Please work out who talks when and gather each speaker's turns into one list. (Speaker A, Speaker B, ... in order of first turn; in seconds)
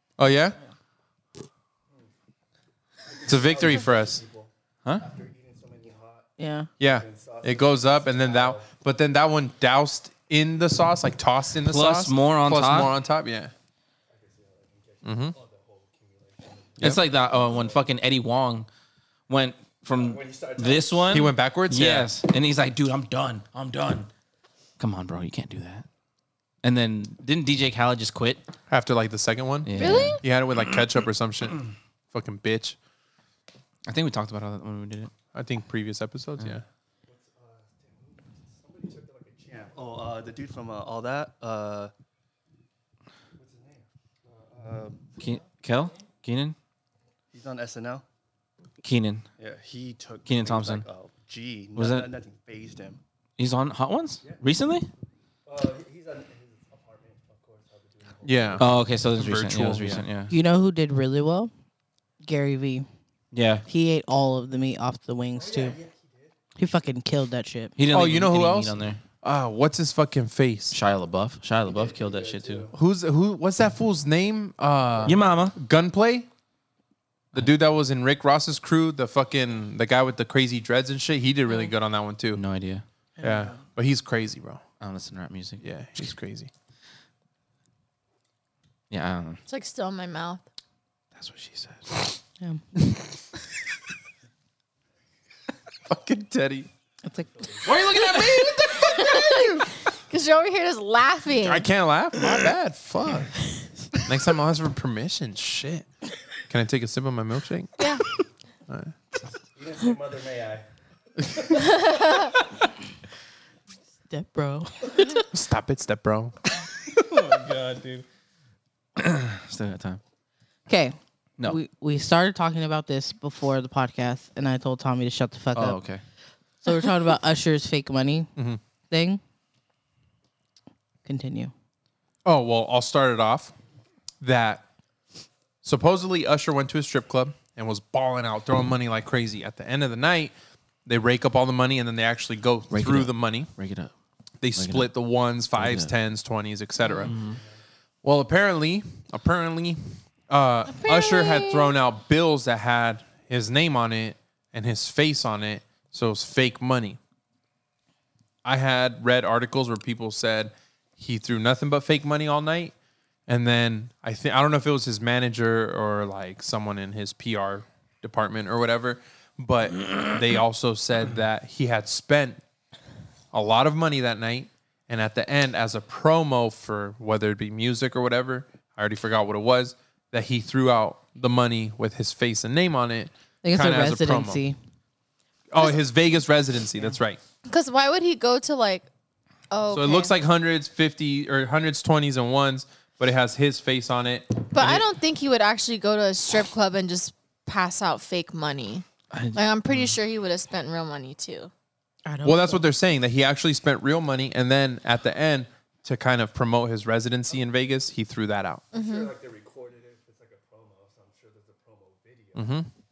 Speaker A: 0.2-0.6, 3.3-4.2, 6.8-13.5, 15.0-15.3, 21.1-22.1, 28.7-32.8, 35.3-36.6, 58.2-60.0, 67.9-70.8, 72.7-76.3, 77.3-82.4, 83.2-84.6, 85.6-86.5, 95.9-96.7, 97.9-99.6, 101.4-103.3, 104.0-105.8, 106.5-107.8, 108.7-108.9, 115.3-116.3, 128.3-128.6, 132.2-133.5, 134.2-134.6, 135.6-140.3, 140.8-143.5, 144.4-147.1, 148.0-157.0, 158.4-162.7, 163.3-172.4, 173.3-184.4, 185.5-187.2, 189.7-194.9, 202.2-208.6, 212.3-212.7
Speaker B: 3.0-8.7, 14.1-17.8, 19.9-21.3, 37.0-41.9, 43.4-45.2, 47.3-48.0, 49.4-53.0, 55.5-58.7, 65.3-66.3, 71.7-72.8, 97.3-97.9, 109.5-110.7, 111.2-111.9, 147.1-147.4, 208.7-212.5
Speaker C: 6.4-6.7, 60.3-61.5, 62.2-62.9, 63.7-65.8, 66.6-67.7, 83.2-83.5, 97.0-97.5, 114.1-115.1, 120.7-125.8, 126.6-128.3, 128.9-129.2, 131.0-131.5, 183.4-184.6, 202.1-202.7
Speaker D: 11.6-12.9, 16.8-18.7, 19.3-24.1, 24.8-25.9, 26.6-28.4, 29.6-30.2, 33.9-35.1, 45.2-46.5, 48.8-49.3, 50.2-50.8, 51.7-52.1, 53.4-54.9, 58.6-60.3, 63.3-63.6, 67.8-69.0, 70.7-72.7, 75.0-75.5, 82.3-82.8, 84.8-85.6, 88.9-89.4, 91.2-92.0, 97.6-98.8, 116.8-118.0, 119.0-120.0, 125.5-126.0, 142.7-143.9, 144.6-144.9, 145.5-145.9, 147.0-147.4, 199.1-199.4
Speaker E: 29.8-30.2, 89.5-90.4, 98.2-101.6, 107.8-108.0, 111.8-112.3, 150.7-151.7, 187.4-188.9, 189.5-190.1, 194.5-201.5, 208.7-209.1